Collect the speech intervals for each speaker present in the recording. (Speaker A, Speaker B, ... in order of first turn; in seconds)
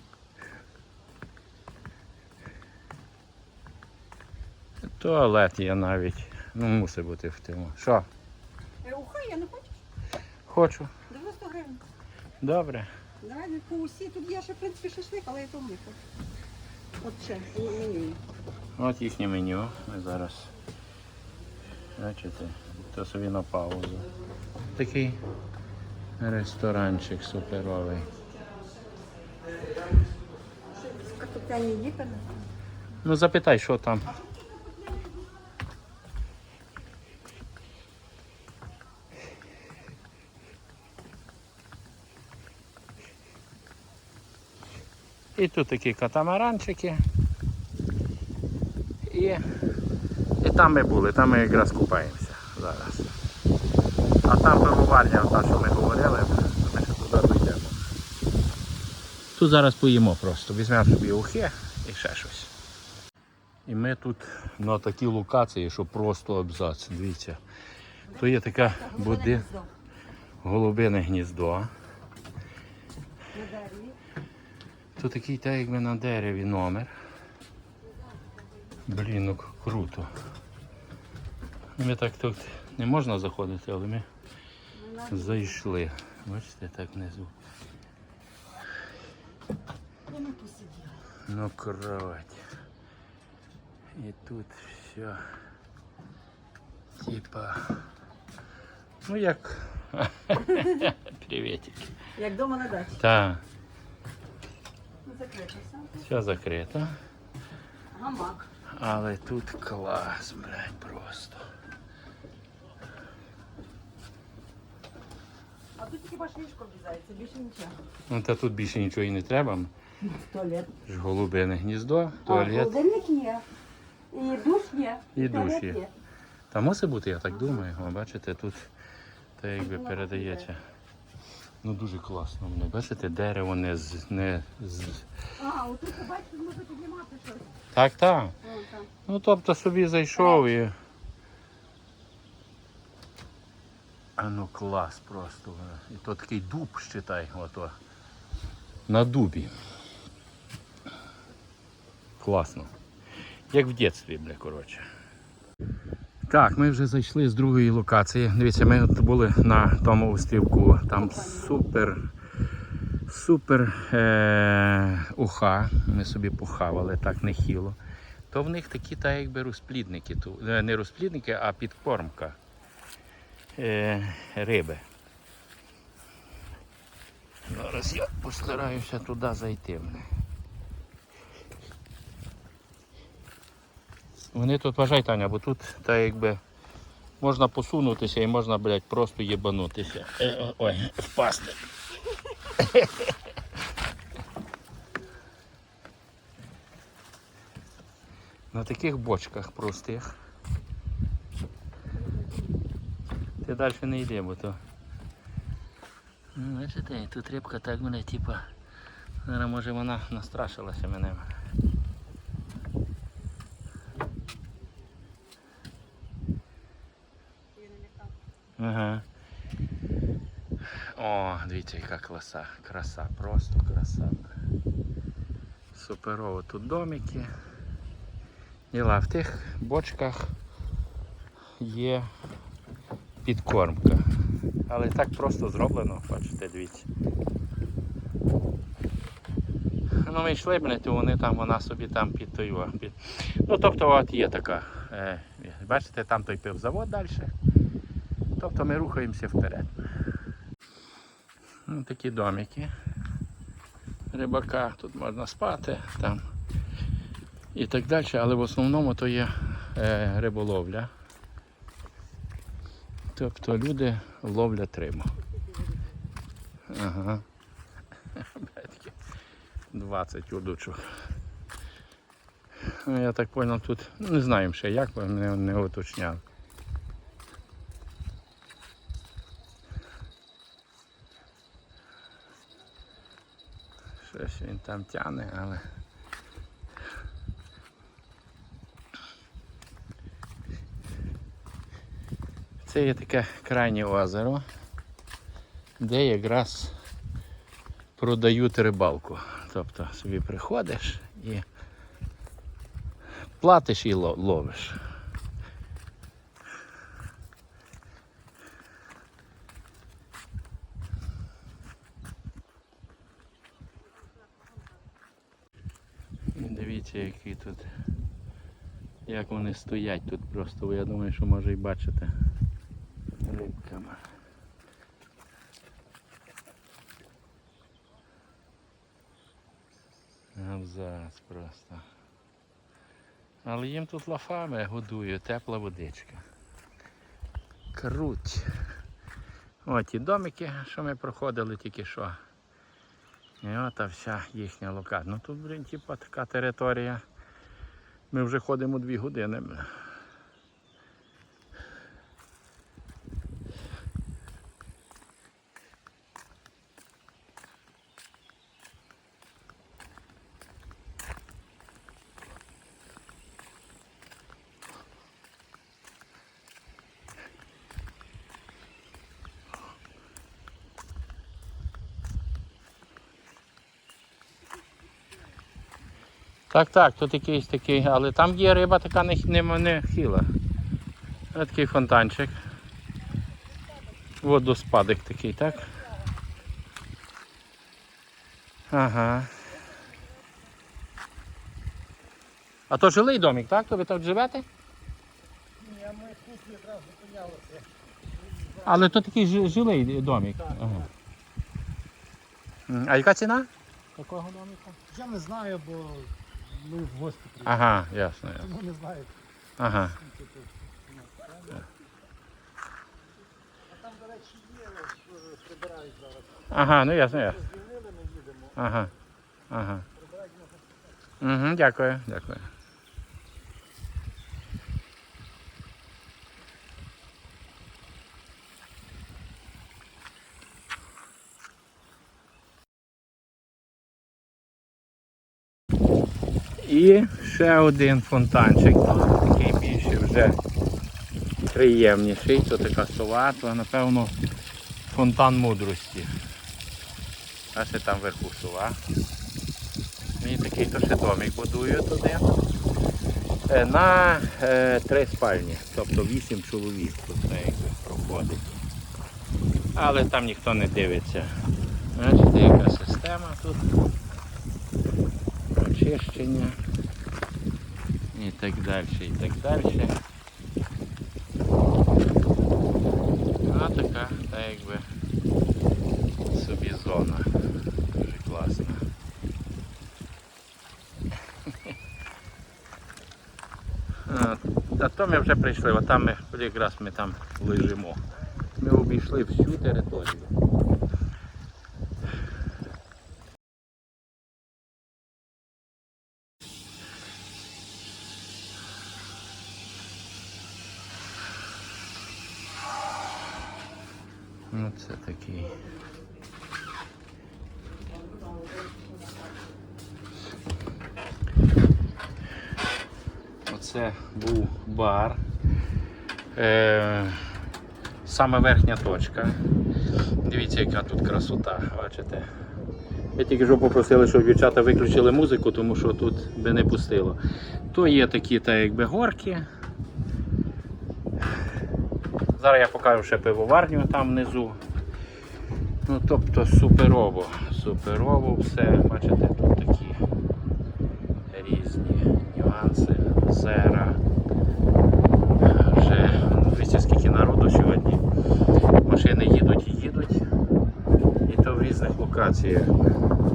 Speaker A: 5.0-8.1, 10.5-10.9, 12.4-12.9, 18.8-20.5, 22.0-24.1, 24.7-25.2, 26.2-28.1, 33.0-34.2, 45.4-47.0, 49.0-49.4, 50.4-53.1, 54.2-57.8, 59.4-62.5, 63.7-67.4, 68.1-69.5, 70.4-71.7, 75.0-76.9, 78.9-80.1, 81.8-84.0, 85.1-87.3, 91.3-92.4, 94.0-95.2, 97.0-97.8, 99.0-101.9, 103.0-103.4, 106.0-106.9, 108.7-111.4, 118.1-119.7, 120.9-122.8, 125.1-125.8, 126.5-128.7, 129.4-130.6, 131.6-135.1, 137.7-138.3, 139.1-140.7, 144.2-147.7, 148.9-149.5, 152.2-152.7, 153.5-154.8, 156.3-162.0, 163.1-167.8, 168.3-172.4, 173.6-174.8, 177.5-180.1, 184.3-186.4, 187.2-191.6, 192.6-193.1, 198.5-200.1, 203.4-204.6, 206.3-208.5, 209.2-211.3, 218.6-219.0, 220.9-224.3, 225.7-227.3, 228.7-230.3, 231.6-232.1, 233.2-234.0, 234.7-236.9, 240.0-247.3, 248.4-249.9, 251.7-252.7, 254.1-256.2, 257.5-260.9, 263.1-265.1, 266.7-267.2, 268.1-268.9, 269.7-270.9, 272.8-276.2, 284.0-285.6, 292.6-294.4, 295.8-296.7, 298.0-301.4, 303.4-304.8, 316.3-317.6, 319.1-322.1, 323.2-324.0, 330.4-331.9, 333.4-336.2, 337.7-338.5, 339.6-342.2, 343.4-347.0, 348.1-349.7, 376.5-380.3, 381.3-382.4, 384.2-385.7, 388.7-389.3, 392.7-394.4, 398.6-400.9, 402.7-404.8, 407.4-408.5, 409.6-409.9, 416.5-417.4, 418.6-418.9, 419.5-419.8, 421.2-422.5, 436.6-440.4, 441.5-444.1, 444.9-446.1, 447.5-448.8, 450.2-452.3, 453.5-458.6, 459.8-461.3, 461.9-463.7, 465.5-466.6, 468.1-469.9, 473.4-474.9, 476.3-477.3, 477.9-478.8, 484.1-488.0, 488.6-490.3, 504.5-505.6, 513.5-515.2, 516.3-517.3, 518.0-519.4, 520.2-522.3, 523.1-527.2, 527.7-529.5, 532.4-534.6, 535.9-540.0, 541.3-544.0, 545.4-548.0, 548.8-550.2, 551.2-552.8
Speaker B: 8.8-9.8, 11.1-11.8, 13.2-16.0, 17.0-18.2, 30.7-32.3, 34.1-35.4, 68.1-69.7, 73.3-74.0, 84.7-85.6, 90.1-91.0, 102.2-103.0, 105.0-106.1, 107.9-108.5, 115.8-117.8, 120.0-120.7, 122.2-123.4, 124.1-125.9, 127.3-127.6, 129.6-130.5, 135.4-137.6, 138.4-138.9, 140.2-140.4, 161.0-161.5, 202.0-202.5, 217.5-218.1, 508.0-509.2
Speaker C: 395.6-397.6, 398.4-398.7, 404.8-407.6, 408.4-409.1, 410.0-411.6, 413.7-416.3, 417.2-418.5, 420.0-420.8